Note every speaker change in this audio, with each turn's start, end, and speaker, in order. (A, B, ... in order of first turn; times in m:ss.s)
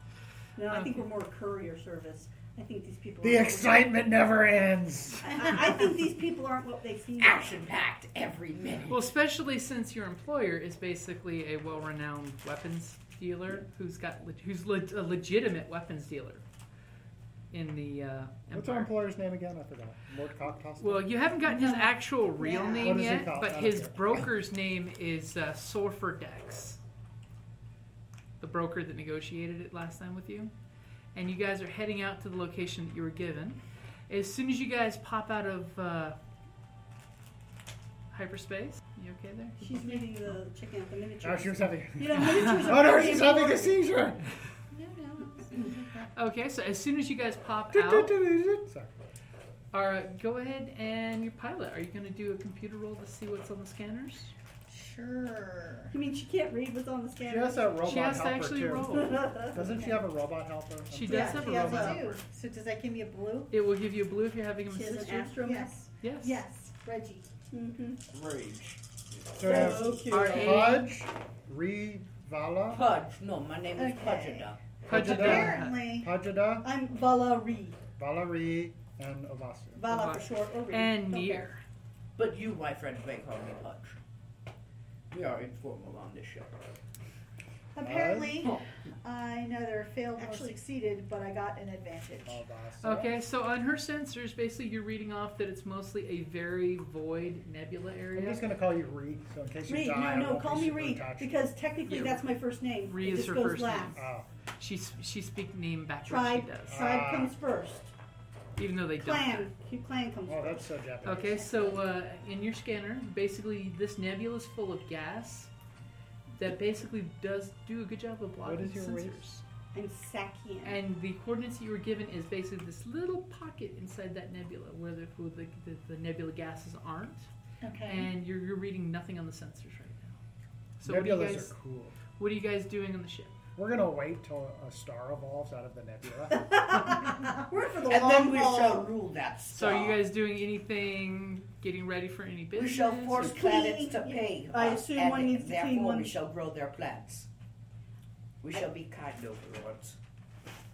0:00.6-0:03.8 A
0:00.7-0:01.0 B
0:03.2-0:05.6 C
0:05.2-0:07.6 A
0:07.2-0:09.1 D
0:08.9-0:16.4 B
0:17.5-0:19.0 B
0:18.5-0:21.1 C
0:20.8-0:26.8 B
0:21.4-0:22.0 E
0:22.4-0:23.0 A
0:22.8-0:24.1 C
0:28.4-0:30.5 B
0:31.2-0:36.2 B
0:38.1-0:40.0 B
0:39.6-0:43.8 A
0:41.2-0:44.3 C
0:42.2-0:42.8 B
0:44.7-0:46.1 E
0:46.2-0:48.2 B
0:47.7-0:49.0 C
0:49.7-0:54.3 B
0:54.7-0:55.9 E
0:55.9-0:57.7 A
0:57.2-1:02.1 C
0:57.8-0:59.2 B
0:58.8-0:59.6 A
0:59.6-1:00.0 E
1:00.9-1:02.0 B
1:01.1-1:02.0 A
1:01.1-1:03.5 E
1:03.5-1:05.4 B
1:04.7-1:05.7 A
1:05.4-1:07.3 E
1:06.0-1:06.4 B
1:07.5-1:08.0 A
1:08.1-1:09.6 D
1:09.4-1:12.8 C
1:09.4-1:10.7 A
1:09.8-1:10.9 B
1:12.7-1:14.8 D
1:13.8-1:16.1 E
1:14.9-1:15.9 B
1:14.9-1:16.7 C
1:16.6-1:17.8 A
1:18.0-1:19.8 C
1:19.8-1:21.5 A
1:19.8-1:21.6 B
1:22.2-1:24.0 D
1:25.1-1:26.6 D
1:27.8-1:32.4 E
1:27.8-1:28.5 C
1:30.2-1:30.6 A
1:32.3-1:33.1 C
1:32.8-1:38.4 B
1:38.1-1:41.4 C
1:39.7-1:44.0 A
1:41.9-1:42.2 B
1:42.8-1:44.0 B
1:43.9-1:44.3 C
1:44.6-1:46.8 B
1:46.1-1:47.9 A
1:46.7-1:47.3 C
1:48.6-1:49.5 B
1:49.0-1:50.7 A
1:50.2-1:51.5 C
1:51.0-1:55.5 B
1:56.4-1:59.4 B
1:58.4-1:59.2 C
1:59.7-2:00.8 A
2:00.6-2:07.3 B
2:07.6-2:08.1 E
2:07.8-2:10.2 B
2:10.8-2:11.5 B
2:10.8-2:12.0 C
2:12.2-2:13.4 B
2:13.6-2:16.9 C
2:16.3-2:18.9 A
2:17.8-2:20.0 D
2:19.5-2:23.3 B
2:22.6-2:27.3 D
2:23.2-2:26.2 A
2:28.4-2:30.0 D